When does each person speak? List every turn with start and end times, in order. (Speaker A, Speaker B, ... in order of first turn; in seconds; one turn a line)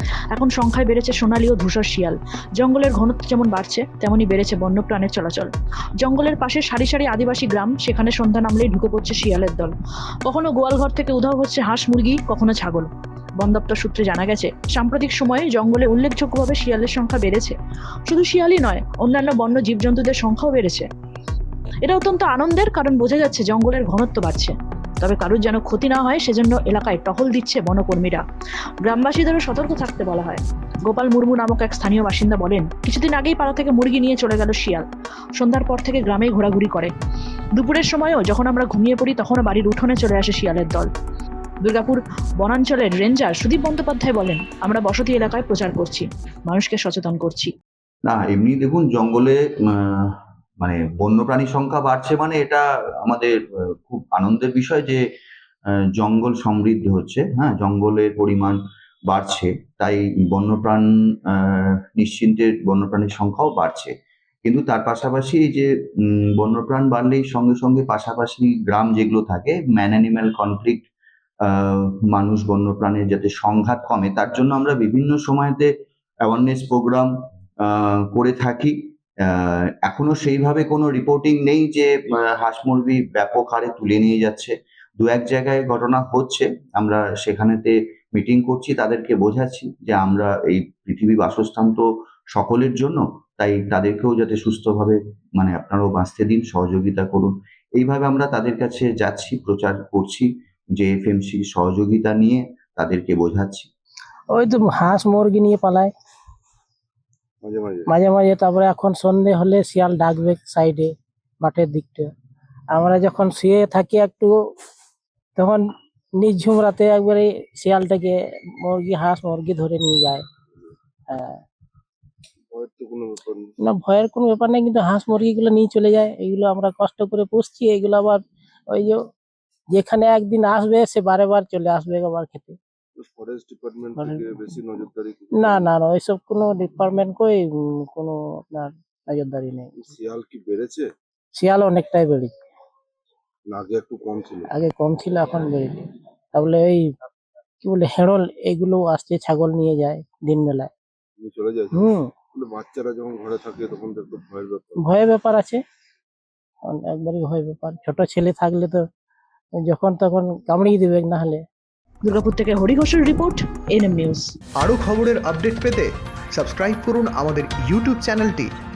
Speaker A: 0.3-9.7
Speaker A: 10.2-17.6
Speaker A: 18.1-20.9
Speaker A: 21.8-28.2
Speaker A: 28.8-34.8
Speaker A: 35.4-36.9
Speaker A: 37.5-40.9
Speaker A: 41.6-47.5
Speaker B: 48.1-55.0
Speaker B: 56.0-63.9
Speaker B: 64.4-70.8
Speaker B: 71.4-75.7
Speaker B: 76.2-77.1
Speaker B: 77.6-103.7
Speaker C: 104.3-105.9
Speaker D: 107.4-107.9
Speaker C: 107.9-112.1
Speaker C: 112.7-114.3
Speaker C: 115.4-115.7
Speaker C: 116.2-120.2
Speaker C: 121.1-121.4
Speaker D: 122.5-123.5
Speaker C: 123.6-129.0
Speaker C: 129.7-132.6
Speaker D: 133.0-135.7
Speaker C: 134.0-134.2
Speaker C: 135.4-139.7
Speaker D: 139.8-140.9
Speaker C: 141.4-142.3
Speaker D: 143.5-144.5
Speaker C: 144.5-146.9
Speaker C: 147.6-150.7
Speaker D: 151.2-154.8
Speaker C: 151.7-152.1
Speaker C: 154.8-155.6
Speaker C: 156.7-158.8
Speaker C: 159.7-161.4
Speaker A: 162.0-164.3
Speaker E: 164.6-168.5